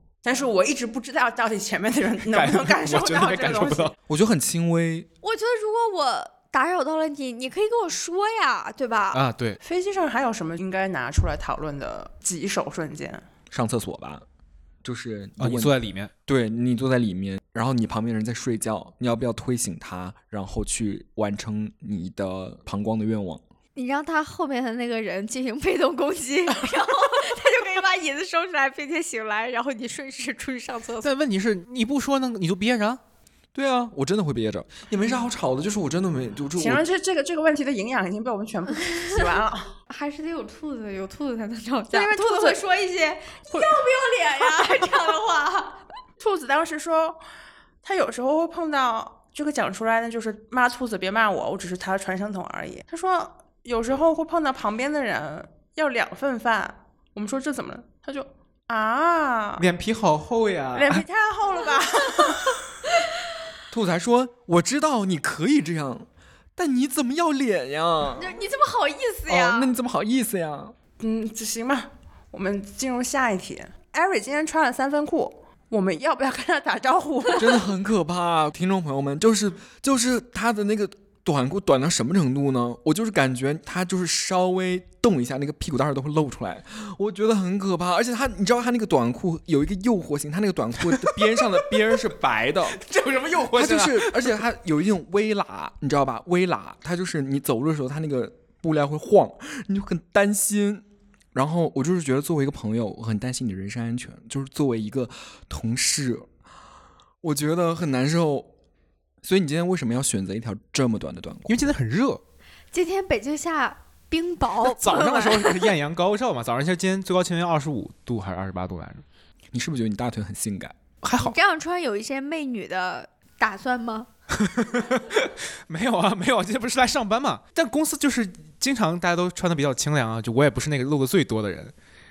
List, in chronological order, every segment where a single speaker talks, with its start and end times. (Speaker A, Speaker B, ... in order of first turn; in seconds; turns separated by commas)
Speaker A: 0.2-3.9, Speaker B: 2.3-3.9, Speaker C: 4.1-5.1, Speaker D: 5.2-9.2, Speaker B: 9.1-9.6, Speaker A: 9.6-13.2, Speaker C: 13.5-14.2, Speaker C: 14.8-15.7, Speaker B: 15.4-16.1, Speaker C: 16.3-23.4, Speaker D: 23.8-31.1, Speaker B: 31.0-33.0, Speaker C: 33.5-36.8, Speaker A: 36.5-39.8, Speaker D: 39.9-45.8, Speaker A: 41.9-42.6, Speaker A: 43.5-43.8, Speaker A: 44.4-45.1, Speaker A: 46.2-47.2, Speaker A: 47.8-59.6, Speaker B: 59.6-61.0, Speaker A: 60.7-62.6, Speaker D: 61.6-62.4, Speaker C: 63.7-68.4, Speaker D: 68.1-69.7, Speaker C: 69.3-70.7, Speaker A: 71.0-77.6, Speaker C: 77.4-92.8, Speaker B: 90.9-91.7, Speaker B: 92.7-94.4, Speaker C: 93.5-106.2, Speaker C: 107.2-108.5, Speaker C: 109.2-111.6, Speaker B: 111.5-112.2, Speaker D: 112.7-115.7, Speaker B: 114.6-119.0, Speaker C: 119.5-120.8, Speaker B: 121.0-121.4, Speaker D: 121.2-124.1, Speaker B: 124.4-131.7